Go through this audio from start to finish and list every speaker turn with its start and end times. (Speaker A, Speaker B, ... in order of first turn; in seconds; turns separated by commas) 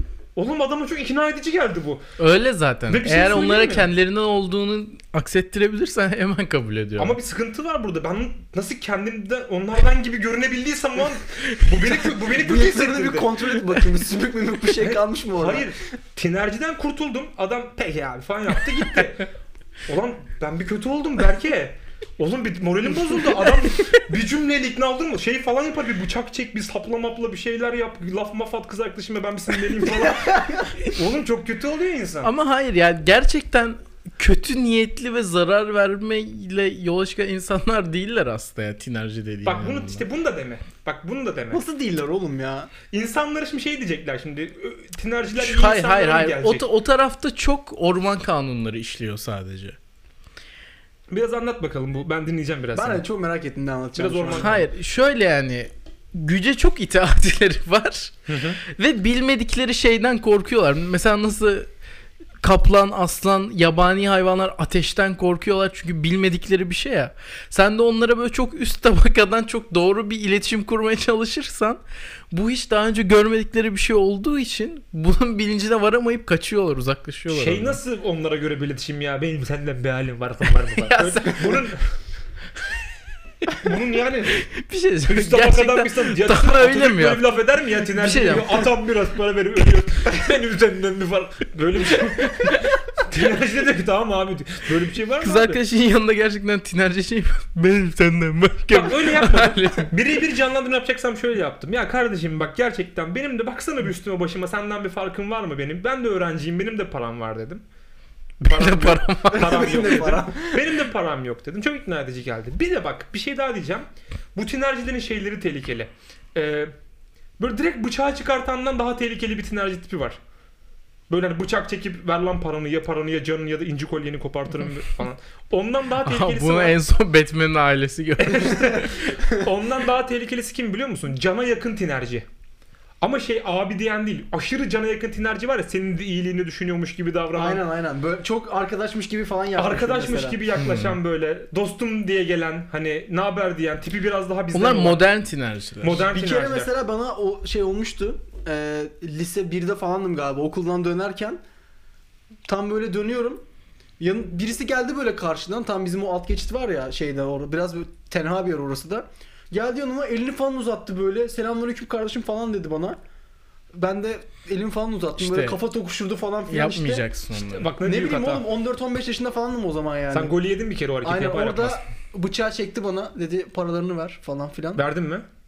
Speaker A: 0.3-2.0, Speaker B: 2.2-7.2, Speaker A: 2.9-3.9, Speaker A: 7.0-13.4, Speaker C: 12.4-15.7, Speaker A: 14.8-19.3, Speaker A: 19.9-32.3, Speaker C: 30.2-30.5, Speaker B: 32.2-40.0, Speaker A: 39.4-41.6, Speaker C: 41.5-42.7, Speaker A: 42.9-46.7, Speaker B: 45.3-49.8, Speaker A: 51.1-53.0, Speaker C: 52.7-54.5, Speaker A: 54.0-54.7, Speaker B: 54.3-58.1, Speaker A: 58.3-58.6, Speaker B: 58.6-61.7, Speaker B: 62.4-77.8, Speaker A: 77.3-81.8, Speaker B: 80.7-81.7, Speaker A: 83.6-84.4, Speaker B: 84.4-87.2, Speaker A: 85.1-95.6, Speaker B: 87.9-88.7, Speaker B: 95.2-99.9, Speaker A: 98.7-107.6, Speaker B: 108.4-109.6, Speaker A: 108.4-116.7, Speaker C: 109.3-110.6, Speaker A: 117.4-120.2, Speaker A: 121.1-126.8, Speaker B: 126.0-128.7, Speaker A: 128.2-132.2, Speaker A: 133.0-137.6, Speaker C: 137.3-140.4, Speaker A: 139.6-145.0, Speaker B: 140.6-141.0, Speaker B: 144.5-146.1, Speaker A: 145.8-146.7, Speaker C: 146.1-151.4, Speaker C: 152.4-153.4, Speaker C: 154.0-163.0, Speaker C: 163.7-167.1, Speaker B: 165.2-165.6, Speaker B: 166.5-167.7, Speaker A: 167.3-168.5, Speaker C: 167.8-170.3, Speaker A: 170.1-171.8, Speaker C: 171.0-174.8, Speaker A: 174.7-175.2